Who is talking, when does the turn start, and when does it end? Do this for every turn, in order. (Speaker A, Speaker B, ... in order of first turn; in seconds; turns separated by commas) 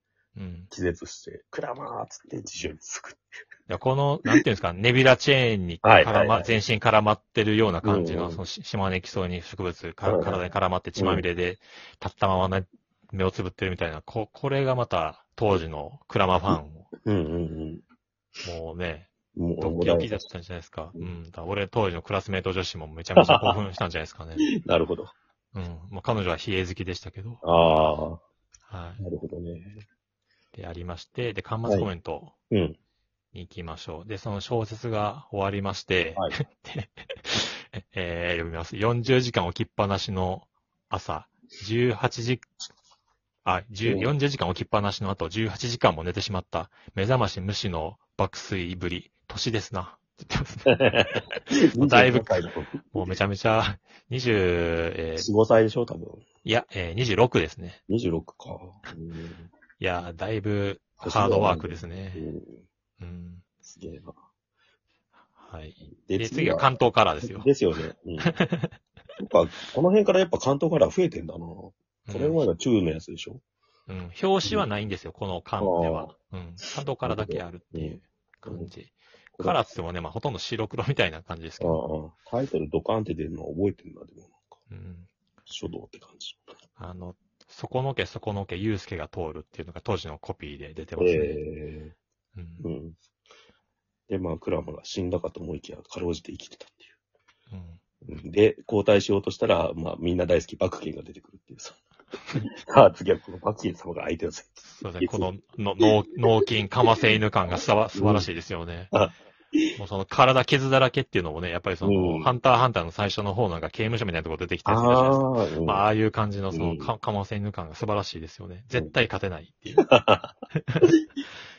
Speaker A: 0.3-0.7, Speaker B: 0.7-3.2, Speaker A: 3.7-16.9, Speaker B: 5.8-6.5, Speaker B: 7.8-8.4, Speaker B: 10.1-10.4, Speaker B: 11.0-11.2, Speaker B: 17.0-17.8, Speaker A: 18.4-24.4, Speaker B: 19.3-20.2, Speaker B: 23.2-23.6, Speaker B: 24.4-25.1, Speaker A: 25.5-27.4, Speaker B: 27.4-28.2, Speaker A: 28.7-29.0, Speaker B: 29.0-29.8, Speaker A: 30.5-32.3, Speaker B: 32.5-32.8, Speaker A: 33.3-42.5, Speaker A: 43.4-55.3, Speaker B: 43.8-44.1, Speaker B: 50.7-53.1, Speaker B: 55.2-56.2, Speaker A: 56.4-57.8, Speaker B: 57.9-59.5, Speaker A: 59.8-62.3, Speaker B: 61.0-62.6, Speaker A: 63.0-63.4, Speaker B: 63.6-64.1, Speaker A: 65.4-67.5, Speaker B: 65.9-66.7, Speaker B: 67.2-68.4, Speaker A: 68.2-68.8, Speaker B: 69.2-73.4, Speaker A: 72.1-72.4, Speaker A: 73.9-81.8, Speaker B: 75.6-76.1, Speaker B: 77.0-78.7, Speaker B: 79.4-79.6, Speaker B: 81.6-84.6, Speaker A: 84.7-85.1, Speaker B: 85.5-86.4, Speaker A: 86.8-91.4, Speaker B: 91.0-91.9, Speaker A: 92.3-92.7, Speaker B: 92.6-93.0, Speaker B: 94.1-96.9, Speaker A: 97.5-97.8, Speaker B: 98.0-101.8, Speaker B: 102.6-105.9, Speaker A: 104.6-108.9, Speaker B: 107.9-108.3, Speaker B: 108.9-109.7, Speaker A: 109.8-119.9, Speaker B: 111.8-112.3, Speaker B: 114.6-115.9, Speaker B: 116.5-116.9, Speaker B: 119.8-121.0, Speaker A: 120.5-120.9